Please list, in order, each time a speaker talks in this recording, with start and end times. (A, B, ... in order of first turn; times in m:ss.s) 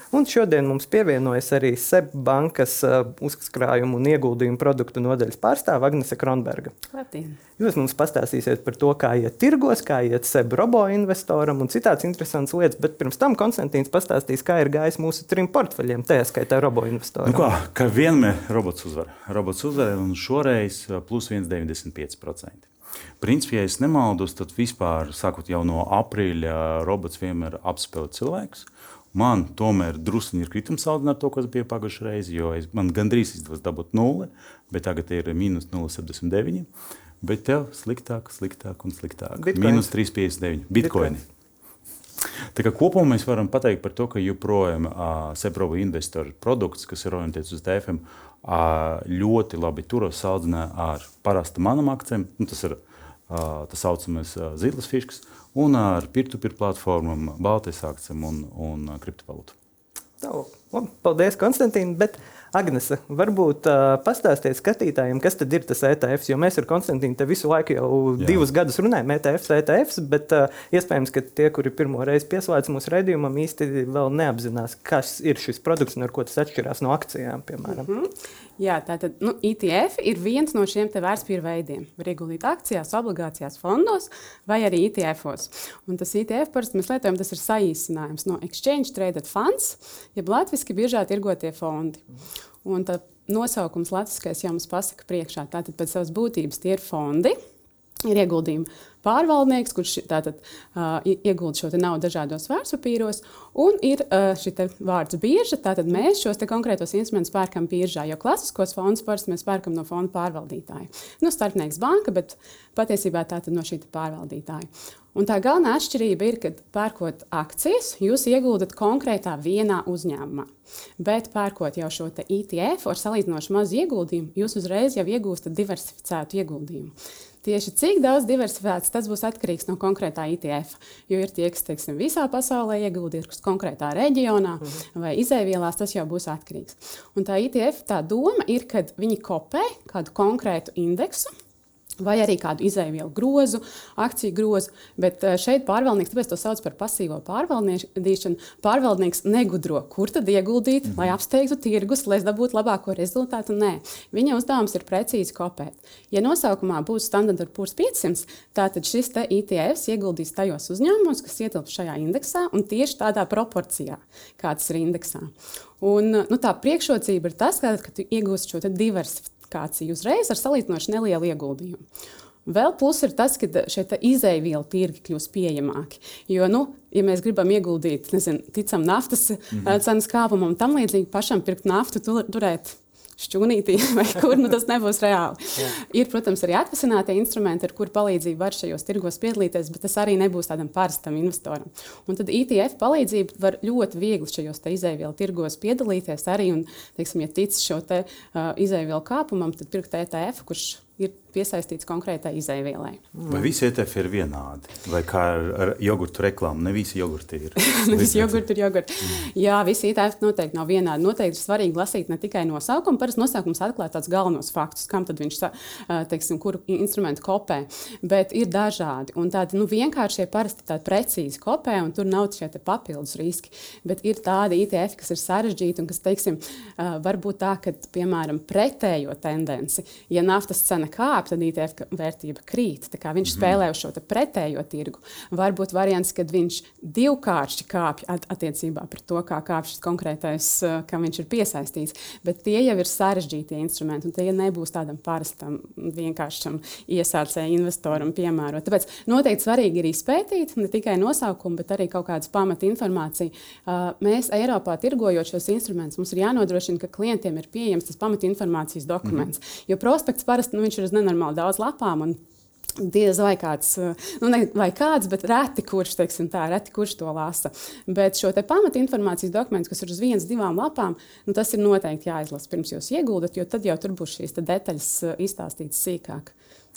0:00.1-0:06.7 A
0:06.9-0:07.4 B
0:07.6-0:17.5 A
0:17.2-0:22.7 C
0:23.2-0:36.7 C
0:37.2-0:41.2 C
0:39.4-0:39.9 A
0:40.8-0:41.1 A
0:42.2-0:59.5 C
1:00.2-1:17.9 A
1:08.2-1:08.5 C
1:17.7-1:32.0 B
1:32.6-1:37.4 B
1:38.0-2:06.9 B
2:07.4-2:21.3 B
2:22.0-2:51.8 B
2:52.4-3:23.0 B
3:23.2-3:23.4 A
3:23.3-3:28.4 C
3:27.6-4:22.2 B
3:53.3-3:53.5 C
4:22.8-4:36.3 B